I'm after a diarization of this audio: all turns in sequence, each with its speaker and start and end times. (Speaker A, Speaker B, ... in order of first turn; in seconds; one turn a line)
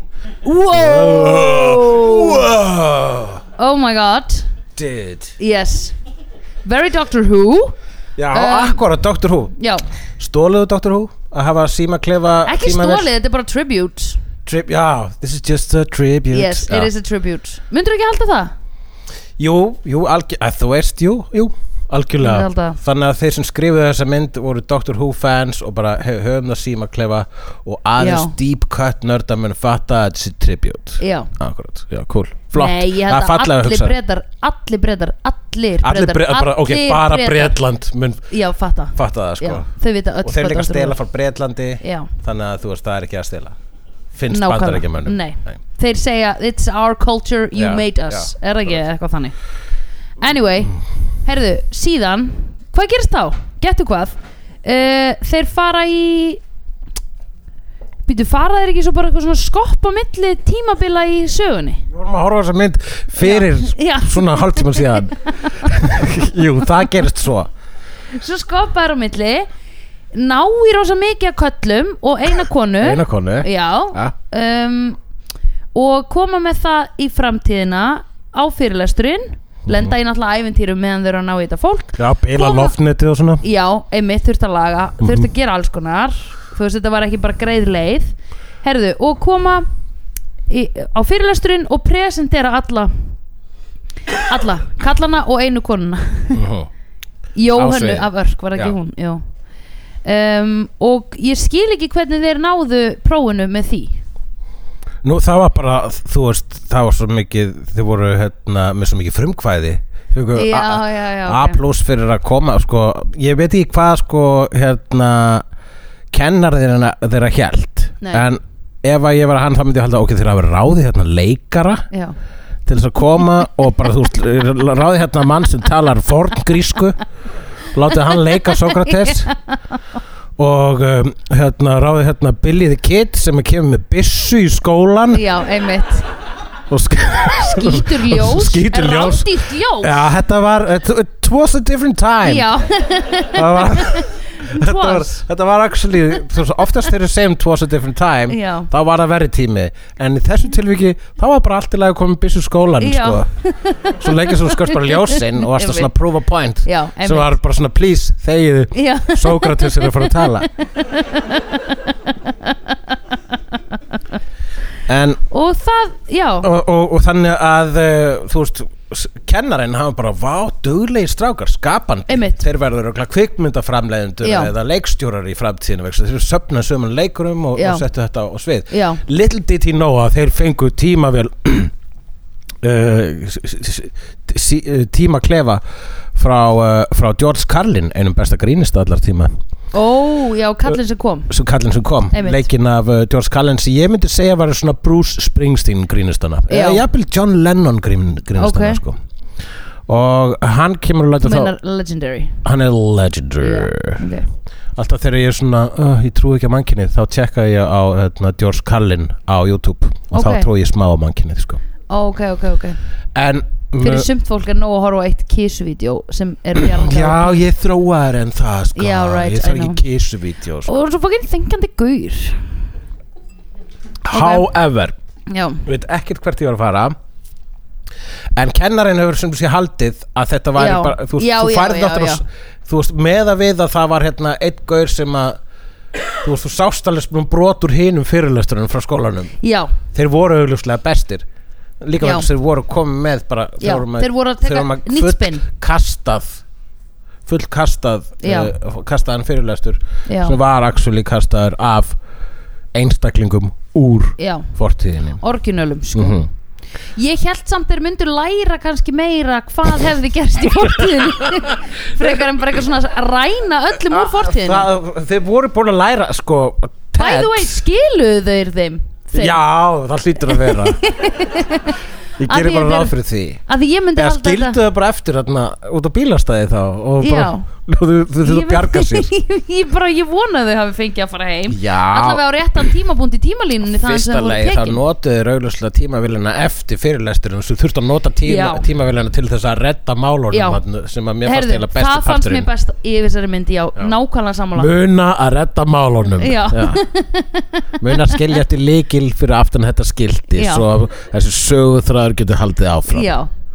Speaker A: 0.4-2.5
Speaker B: 0.7-3.4
Speaker A: 3.6-4.5
Speaker B: 4.8-5.4
Speaker A: 5.4-6.0
Speaker A: 6.7-7.7
Speaker B: 8.2-9.5
Speaker A: 8.3-8.8
Speaker A: 9.6-9.9
Speaker B: 10.2-13.1
Speaker A: 12.4-14.2
Speaker B: 14.5-16.9
Speaker A: 16.3-18.5
Speaker B: 19.4-33.9
Speaker A: 22.2-22.8
Speaker A: 28.0-28.4
Speaker A: 31.0-31.3
Speaker A: 32.5-37.6
Speaker B: 35.8-38.3
Speaker A: 38.3-41.0
Speaker B: 39.0-39.7
Speaker B: 40.2-43.6
Speaker A: 41.8-42.1
Speaker B: 44.1-45.6
Speaker A: 44.3-49.4
Speaker B: 47.5-48.3
Speaker A: 50.2-56.4
Speaker A: 58.1-61.8
Speaker B: 61.9-67.5
Speaker A: 63.2-65.7
Speaker A: 68.1-69.5
Speaker A: 70.1-75.0
Speaker B: 72.8-74.1
Speaker A: 75.7-82.8
Speaker B: 79.7-80.0
Speaker B: 82.0-83.4
Speaker A: 83.4-89.7
Speaker B: 85.0-85.3
Speaker A: 90.5-93.1
Speaker A: 94.3-96.4
Speaker B: 96.3-96.7
Speaker A: 97.4-99.2
Speaker B: 97.5-98.8
Speaker A: 100.0-104.0
Speaker B: 105.0-115.5
Speaker A: 110.3-111.6
Speaker B: 116.1-121.8
Speaker A: 118.0-118.3
Speaker B: 122.7-127.0
Speaker B: 127.7-129.3
Speaker A: 128.7-129.6
Speaker B: 130.4-135.2
Speaker A: 135.1-136.1
Speaker B: 136.7-142.5
Speaker A: 137.4-140.0
Speaker A: 142.2-145.2
Speaker B: 143.3-153.3
Speaker A: 148.3-148.7
Speaker A: 152.8-155.9
Speaker B: 154.0-160.5
Speaker A: 156.7-157.3
Speaker A: 158.7-163.6
Speaker B: 164.9-165.2
Speaker A: 165.3-166.5
Speaker B: 166.4-181.7
Speaker A: 172.1-172.4
Speaker A: 174.2-174.5
Speaker A: 177.6-177.8
Speaker A: 178.7-179.0
Speaker B: 182.6-185.6
Speaker B: 186.1-189.3
Speaker A: 189.7-191.3
Speaker B: 191.3-199.0
Speaker A: 192.1-192.5
Speaker A: 196.5-196.8
Speaker A: 198.4-198.8
Speaker B: 199.9-201.5
Speaker A: 201.2-202.4
Speaker B: 202.4-204.0
Speaker A: 203.4-204.3
Speaker B: 204.8-211.6
Speaker A: 210.1-210.5
Speaker A: 211.9-212.8
Speaker B: 213.2-214.1
Speaker A: 213.8-217.4
Speaker B: 216.6-220.7
Speaker A: 218.8-219.8
Speaker A: 220.7-222.4
Speaker B: 224.1-225.0
Speaker A: 224.1-224.5
Speaker A: 225.3-225.6
Speaker B: 225.7-227.0
Speaker B: 228.3-235.4
Speaker A: 230.6-232.2
Speaker B: 236.2-239.4
Speaker A: 239.4-239.7
Speaker B: 239.9-241.3
Speaker B: 241.8-246.4
Speaker A: 242.0-242.3
Speaker A: 243.6-245.4
Speaker B: 247.3-252.0
Speaker A: 248.2-248.5
Speaker A: 250.1-250.4
Speaker B: 252.7-255.2
Speaker A: 254.2-254.5
Speaker A: 255.2-256.2
Speaker B: 255.9-256.3
Speaker A: 257.0-264.7
Speaker B: 260.8-262.2
Speaker B: 263.9-267.6
Speaker A: 267.0-269.4
Speaker B: 269.1-270.8
Speaker A: 270.3-272.9
Speaker B: 272.2-273.4
Speaker A: 273.5-274.6
Speaker B: 274.0-279.1
Speaker A: 277.0-277.5
Speaker A: 278.2-284.8
Speaker B: 281.5-282.2
Speaker B: 283.7-292.5
Speaker A: 288.2-288.6
Speaker A: 290.3-290.6
Speaker A: 291.2-294.7
Speaker B: 294.6-296.8
Speaker A: 296.2-298.2
Speaker B: 297.8-303.1
Speaker A: 300.3-300.7
Speaker A: 302.9-303.3